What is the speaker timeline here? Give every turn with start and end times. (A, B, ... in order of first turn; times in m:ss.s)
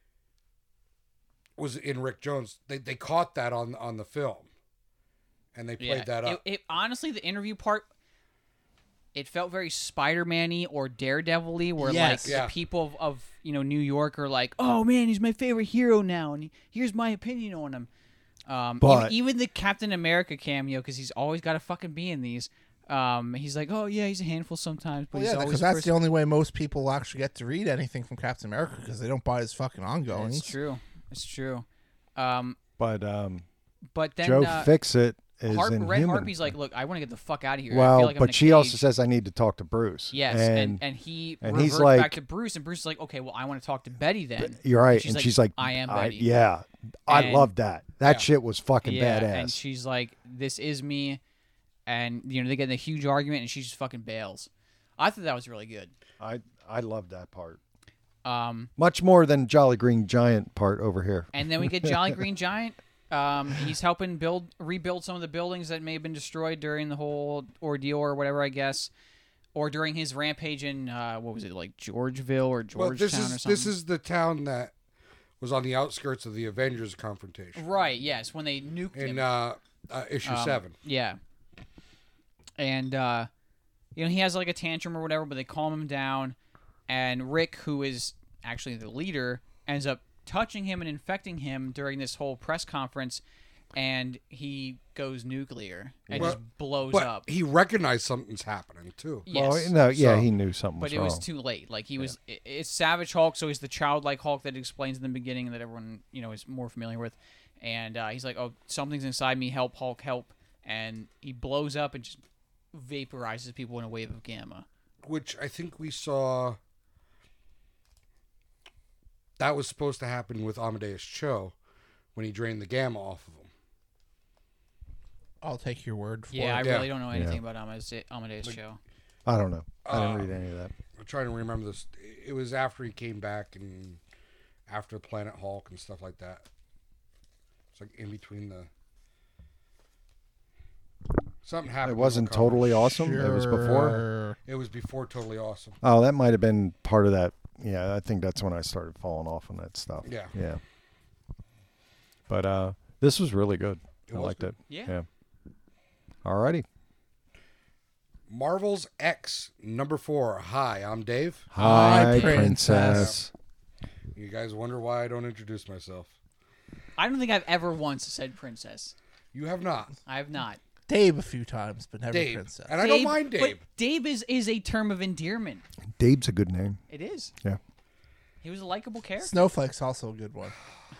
0:01.6-0:04.5 A
0:05.5-0:06.4 A
0:05.8-0:07.9 B
0:09.1-0:17.9 B
0:11.8-0:12.4 C
0:12.2-0:12.5 A
0:18.4-0:25.9 B
0:18.8-0:19.1 D
0:25.1-0:30.6 C
0:30.1-0:32.6 B
0:32.8-0:33.4 D
0:33.9-0:34.7 B
0:34.2-0:36.5 D
0:35.5-0:38.8 B
0:37.7-0:40.8 D
0:40.1-0:46.3 B
0:41.4-0:42.2 D
0:44.4-0:49.6 D
0:47.1-0:47.5 B
0:48.8-0:51.2 B
0:51.8-0:55.9 B
0:56.2-0:57.6 D
0:58.2-0:58.7 B
0:58.8-1:01.9 D
1:01.3-1:08.9 B
1:09.6-1:13.7 B
1:12.7-1:14.7 A
1:15.4-1:17.6 A
1:17.6-1:19.3 B
1:18.9-1:20.7 A
1:20.2-1:21.2 B
1:22.6-1:23.3 B
1:23.9-1:26.4 B
1:26.9-1:33.2 B
1:33.7-1:37.2 B
1:36.1-1:36.4 D
1:36.9-1:39.3 A
1:39.3-1:39.7 B
1:39.3-1:41.2 D
1:39.9-1:40.3 A
1:40.8-1:52.2 B
1:52.7-1:54.7 B
1:55.0-1:56.6 A
1:59.4-2:01.5 A
2:02.1-2:03.5 A
2:05.4-2:06.8 C
2:06.3-2:08.8 B
2:06.6-2:06.9 A
2:07.1-2:07.4 D
2:09.2-2:10.7 D
2:09.8-2:10.3 A
2:11.0-2:14.0 A
2:14.7-2:16.4 A
2:17.7-2:18.7 A
2:21.4-2:22.9 A
2:21.8-2:24.0 D
2:22.9-2:24.4 C
2:24.5-2:25.8 A
2:25.8-2:30.6 D
2:30.0-2:30.3 A
2:32.3-2:35.1 D
2:34.1-2:34.5 A
2:34.7-2:35.0 B
2:36.2-2:36.7 D
2:38.3-2:41.5 A
2:41.5-2:43.3 D
2:41.6-2:42.5 B
2:41.6-2:43.1 C
2:42.7-2:43.2 A
2:44.1-2:46.1 A
2:47.0-2:48.9 B
2:49.3-2:49.9 A
2:50.1-2:50.6 B
2:50.9-2:52.8 C
2:52.1-2:53.6 A
2:52.8-2:55.6 B
2:56.0-2:56.8 D
2:56.9-2:57.3 B
2:58.4-2:59.4 B
2:59.2-3:00.5 C